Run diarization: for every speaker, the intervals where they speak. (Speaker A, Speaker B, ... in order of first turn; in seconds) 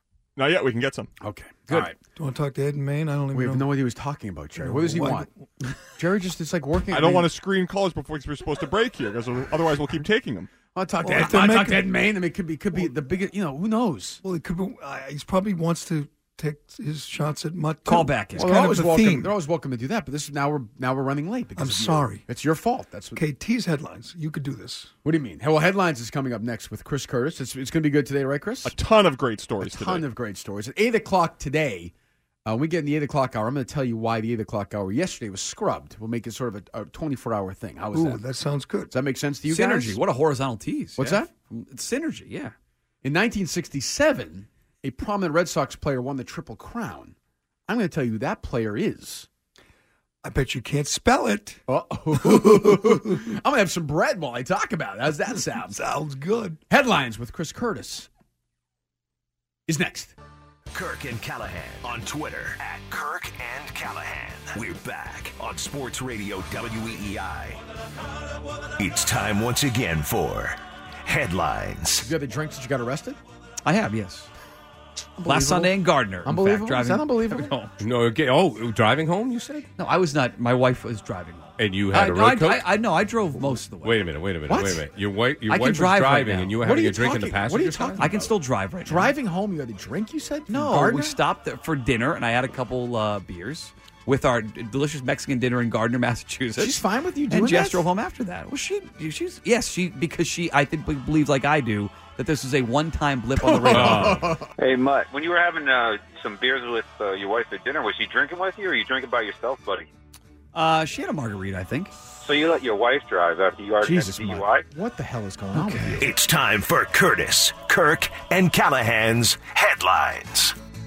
Speaker A: 0.4-1.1, 6.9-10.5, 28.6-30.1
Speaker B: 1.2-2.0, 3.3-7.3, 10.7-14.2, 18.4-23.2, 25.0-28.8, 29.6-31.9, 32.5-38.2, 38.9-40.0, 41.0-41.3, 43.0-47.1, 47.7-49.3, 51.7-55.8, 56.7-58.1, 59.7-60.1, 72.0-73.2, 75.2-77.5, 84.5-84.8, 86.6-91.2, 96.6-97.9, 103.4-104.5, 113.8-116.1
Speaker C: 2.1-3.7, 4.6-5.3, 11.0-11.9, 14.2-19.3, 21.6-22.3, 23.1-24.9, 37.9-38.9, 50.2-51.6, 52.1-53.3, 55.6-56.6
Speaker D: 17.9-18.5, 39.5-42.5, 73.7-74.3, 75.2-77.7, 79.8-84.0, 85.5-86.5, 88.0-89.2, 90.5-104.2, 110.5-111.9, 115.5-116.0
Speaker E: 60.7-67.6, 68.8-72.1, 116.0-120.5
Speaker F: 77.8-79.7, 81.6-82.7, 83.4-88.1, 103.7-104.3
Speaker G: 104.6-109.9, 112.2-114.7